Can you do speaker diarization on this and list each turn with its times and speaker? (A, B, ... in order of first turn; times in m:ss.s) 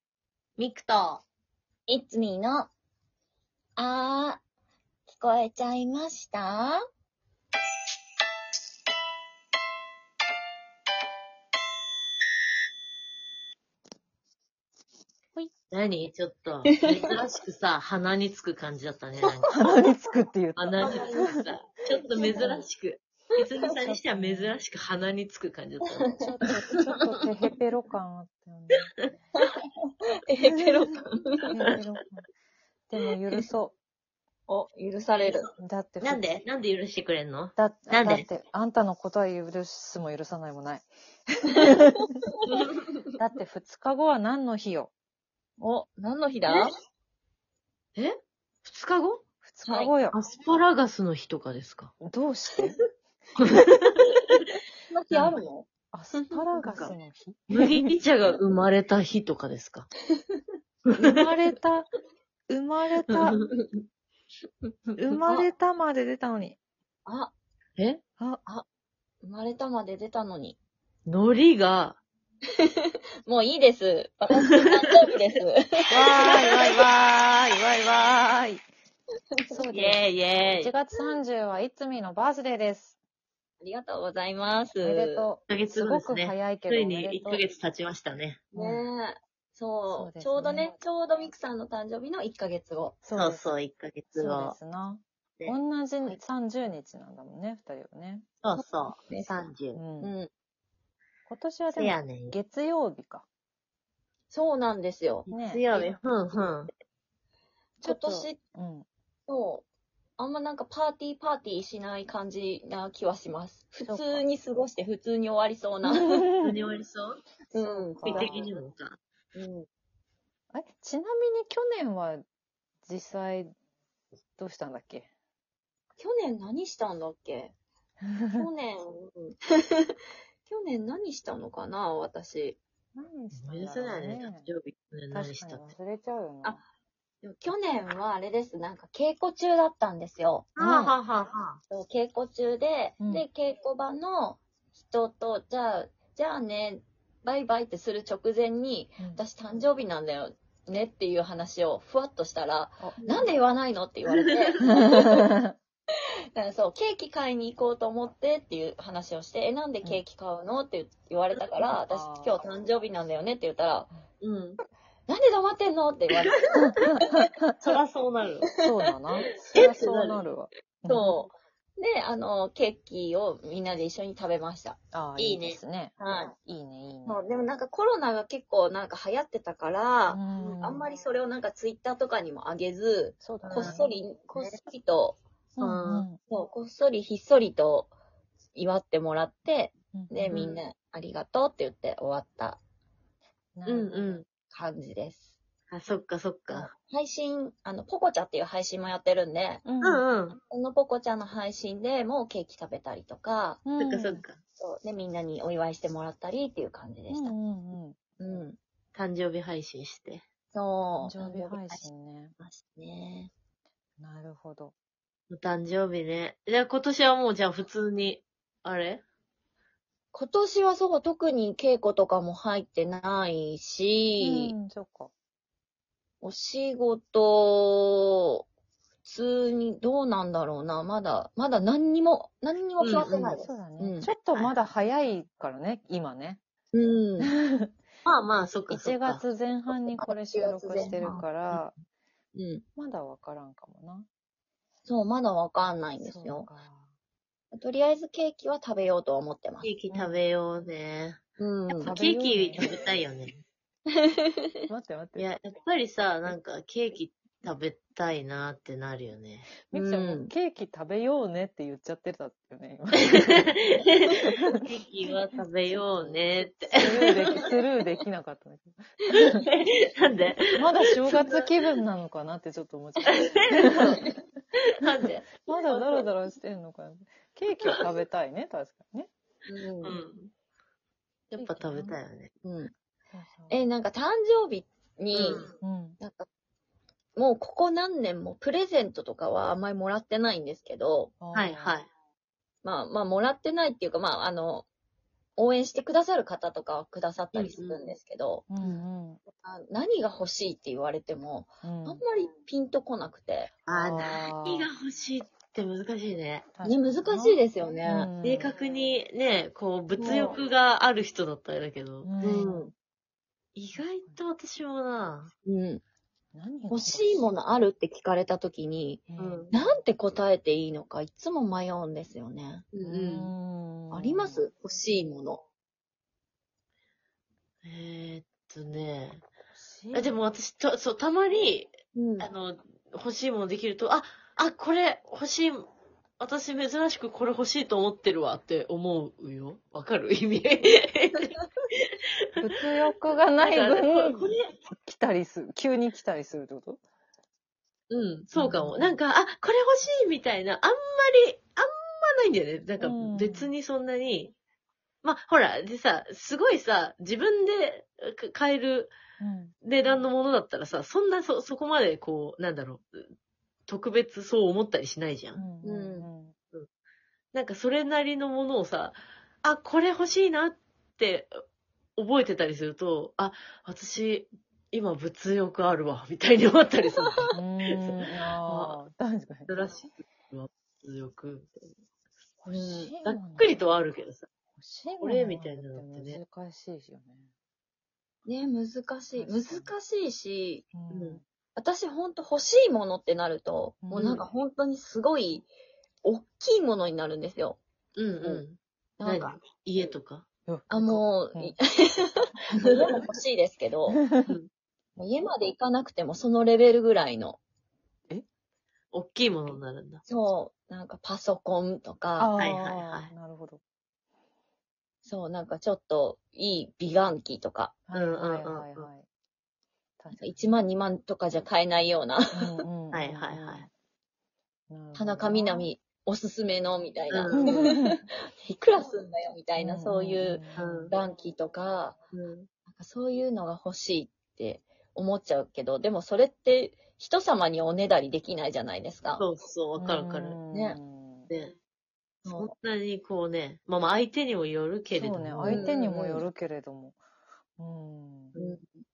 0:00.6-0:01.2 A
0:01.9-0:02.7 B
0:03.8-0:04.4 B
0:05.1-0:06.8 B
0:15.7-0:19.6 A
0:19.5-0:21.4 C
0:20.6-0:26.7 A
0:20.8-0:21.3 B
0:22.2-0:22.6 B
0:22.3-0:22.6 C
0:23.8-0:24.6 C
0:26.2-0:28.9 C
0:30.3-0:31.6 B
0:30.5-0:30.8 C
0:31.5-0:32.3 C
0:32.9-0:33.8 C
0:34.5-0:35.5 B
0:35.6-0:36.3 C
0:36.0-0:38.2 A
0:37.6-0:42.2 C
0:42.4-0:42.9 A
0:43.2-0:44.9 C
0:45.6-0:46.7 B
0:48.0-0:49.2 A
0:49.4-0:50.2 C
0:49.6-0:49.9 B
0:50.1-0:51.9 A
0:52.0-0:52.8 C
0:53.4-0:53.8 A
0:54.9-0:55.7 B
0:55.1-0:55.4 A
0:55.9-0:57.9 C
0:56.6-0:56.9 A
0:57.5-0:59.9 A
1:00.2-1:00.4 B
1:01.0-1:01.9 C
1:02.5-1:03.4 C
1:03.1-1:03.5 A
1:05.0-1:06.6 C
1:05.2-1:05.5 B
1:07.0-1:07.3 B
1:09.2-1:10.6 B
1:11.1-1:12.0 A
1:12.8-1:16.4 B
1:15.9-1:18.6 C
1:16.2-1:16.9 A
1:19.5-1:20.0 C
1:19.7-1:20.7 A
1:20.6-1:23.0 C
1:23.6-1:25.3 B
1:24.8-1:27.4 C
1:25.5-1:28.4 A
1:28.5-1:33.0 B
1:28.6-1:28.8 C
1:29.9-1:30.7 C
1:33.0-1:33.5 C
1:33.1-1:34.6 A
1:34.1-1:38.3 C
1:38.4-1:39.8 A
1:38.6-1:39.4 B
1:39.7-1:40.1 C
1:40.0-1:40.3 B
1:41.3-1:43.2 C
1:41.7-1:42.4 A
1:44.3-1:45.9 B
1:45.3-1:45.6 C
1:45.3-1:46.7 A
1:47.8-1:48.4 B
1:47.8-1:48.8 C
1:49.3-1:49.7 B
1:50.2-1:56.3 B
1:53.8-1:54.2 C
1:55.9-1:56.6 C
1:56.4-1:57.2 A
1:57.5-1:58.5 C
1:57.5-1:58.5 B
1:58.0-1:59.0 A
1:59.3-1:59.7 B
2:00.5-2:02.2 C
2:02.8-2:03.6 C
2:04.4-2:05.1 C
2:06.0-2:07.5 B
2:08.0-2:08.4 C
2:08.3-2:09.9 B
2:10.4-2:12.6 B
2:12.9-2:14.5 C
2:13.3-2:15.7 A
2:15.1-2:16.6 C
2:17.2-2:20.5 B
2:20.6-2:21.6 A
2:20.6-2:21.0 C
2:21.7-2:35.2 B
2:23.0-2:23.2 C
2:32.8-2:33.3 C
2:34.1-2:34.6 A
2:34.8-2:35.5 C
2:36.3-2:43.9 B
2:41.9-2:42.4 C
2:44.2-2:44.6 A
2:45.1-2:46.4 B
2:46.6-2:47.8 C
2:47.0-2:47.3 B
2:47.6-2:48.4 A
2:48.5-2:49.7 B
2:48.6-2:51.1 C
2:49.5-2:50.2 A
2:50.9-2:54.8 B
2:54.9-2:57.2 C
2:55.2-2:55.6 A
2:56.0-2:56.3 B
2:57.1-3:05.2 B
3:00.1-3:00.8 C
3:00.4-3:00.6 A
3:03.2-3:04.6 C
3:03.4-3:03.8 A
3:05.6-3:06.2 C
3:05.6-3:06.1 A
3:06.2-3:07.9 B
3:08.5-3:12.6 B
3:09.9-3:10.3 C
3:10.3-3:10.6 A
3:13.6-3:14.2 C
3:13.7-3:14.2 A
3:14.5-3:15.3 B
3:15.7-3:16.7 A
3:16.5-3:19.6 B
3:19.6-3:20.0 C
3:19.8-3:20.4 A
3:20.3-3:23.6 B
3:23.6-3:24.2 C
3:23.8-3:24.4 A
3:24.6-3:27.3 B
3:27.1-3:28.0 C
3:28.2-3:28.6 B
3:28.9-3:30.2 A
3:30.5-3:31.8 B
3:31.0-3:32.3 C
3:32.4-3:33.3 B
3:34.0-3:34.7 C
3:35.3-3:39.0 A
3:40.1-3:44.5 B
3:44.2-3:45.1 C
3:46.2-3:48.4 B
3:49.0-3:54.1 B
3:52.8-3:53.4 A
3:53.1-3:56.4 C
3:54.3-3:54.6 A
3:56.7-3:57.3 B
3:57.2-3:57.7 C
3:58.0-3:59.2 A
3:58.7-4:01.8 C
3:59.8-4:01.2 B
4:01.0-4:01.6 A
4:02.3-4:02.6 B
4:02.8-4:04.1 C
4:04.8-4:06.5 B
4:06.0-4:06.9 C
4:07.5-4:09.7 B
4:09.6-4:11.2 A
4:09.9-4:10.2 C
4:11.4-4:11.9 B
4:11.8-4:13.4 A
4:11.8-4:12.8 C
4:14.7-4:15.3 C
4:15.2-4:19.6 A
4:19.7-4:24.5 C
4:19.7-4:20.3 B
4:23.1-4:27.4 A
4:25.7-4:29.5 C
4:29.4-4:31.4 A
4:30.6-4:34.1 C
4:33.0-4:34.0 A
4:33.8-4:34.1 B
4:34.8-4:36.0 A
4:35.5-4:39.1 C
4:39.5-4:40.0 B
4:39.8-4:40.3 A
4:41.3-4:42.3 A
4:41.4-4:42.0 C
4:42.4-4:42.7 B
4:43.1-4:43.6 C
4:43.5-4:46.3 B
4:45.1-4:45.5 A
4:45.6-4:46.0 C
4:47.2-4:51.1 B
4:51.2-4:51.8 C
4:51.3-4:51.9 A
4:52.6-4:54.7 B
4:55.4-4:58.8 B
4:57.4-4:57.8 A
4:58.5-4:59.2 C
4:59.4-5:03.5 B
5:01.6-5:02.0 C
5:03.7-5:06.5 A
5:03.7-5:04.7 C
5:06.5-5:08.5 C
5:06.6-5:08.1 B
5:08.2-5:12.7 A
5:10.0-5:10.4 B
5:12.0-5:12.5 C
5:12.2-5:12.7 B
5:13.6-5:15.3 A
5:13.8-5:14.2 C
5:15.5-5:15.8 B
5:16.3-5:17.3 C
5:16.7-5:22.7 B
5:19.1-5:19.5 C
5:19.2-5:19.6 A
5:22.7-5:23.3 A
5:22.8-5:24.4 C
5:23.9-5:25.4 B
5:27.6-5:29.2 A
5:29.6-5:30.2 C
5:29.9-5:41.4 A
5:31.9-5:32.3 B
5:42.4-5:46.8 C
5:43.4-5:44.5 A
5:47.9-5:54.3 A
5:48.4-5:49.0 C
5:52.8-5:53.5 C
5:55.0-5:58.9 A
5:59.2-5:59.6 C
5:59.6-6:03.1 A
6:03.7-6:05.4 A
6:05.4-6:06.4 C
6:05.6-6:06.1 B
6:07.3-6:11.3 A
6:12.0-6:18.8 A
6:17.0-6:17.3 B
6:17.3-6:19.8 C
6:19.5-6:21.7 A
6:22.4-6:23.6 C
6:22.5-6:24.3 A
6:24.6-6:27.3 C
6:25.0-6:26.2 A
6:28.2-6:30.7 B
6:29.2-6:29.7 C
6:30.7-6:31.2 C
6:30.9-6:31.2 A
6:31.6-6:35.5 B
6:33.8-6:34.2 C
6:34.0-6:34.3 A
6:36.0-6:37.6 B
6:38.0-6:40.3 A
6:39.0-6:39.4 B
6:40.5-6:41.5 C
6:40.7-6:44.0 B
6:42.7-6:43.0 A
6:45.0-6:47.4 B
6:48.9-6:50.0 A
6:50.1-6:52.4 B
6:52.2-6:53.6 C
6:52.4-6:53.1 A
6:55.0-6:58.2 B
6:57.9-6:59.1 C
6:58.0-6:58.9 A
7:00.0-7:00.5 C
7:00.2-7:02.6 B
7:02.3-7:03.7 C
7:02.9-7:03.7 A
7:04.7-7:05.6 C
7:05.0-7:12.0 B
7:07.1-7:07.7 A
7:07.4-7:08.0 C
7:09.6-7:10.8 C
7:10.6-7:10.9 A
7:12.1-7:12.5 A
7:12.7-7:19.2 B
7:19.2-7:20.4 A
7:19.8-7:21.3 C
7:20.5-7:20.8 B
7:21.3-7:21.6 A
7:22.3-7:22.5 B
7:22.3-7:25.8 A
7:24.9-7:27.0 C
7:25.5-7:26.2 B
7:27.6-7:28.4 C
7:28.4-7:28.7 B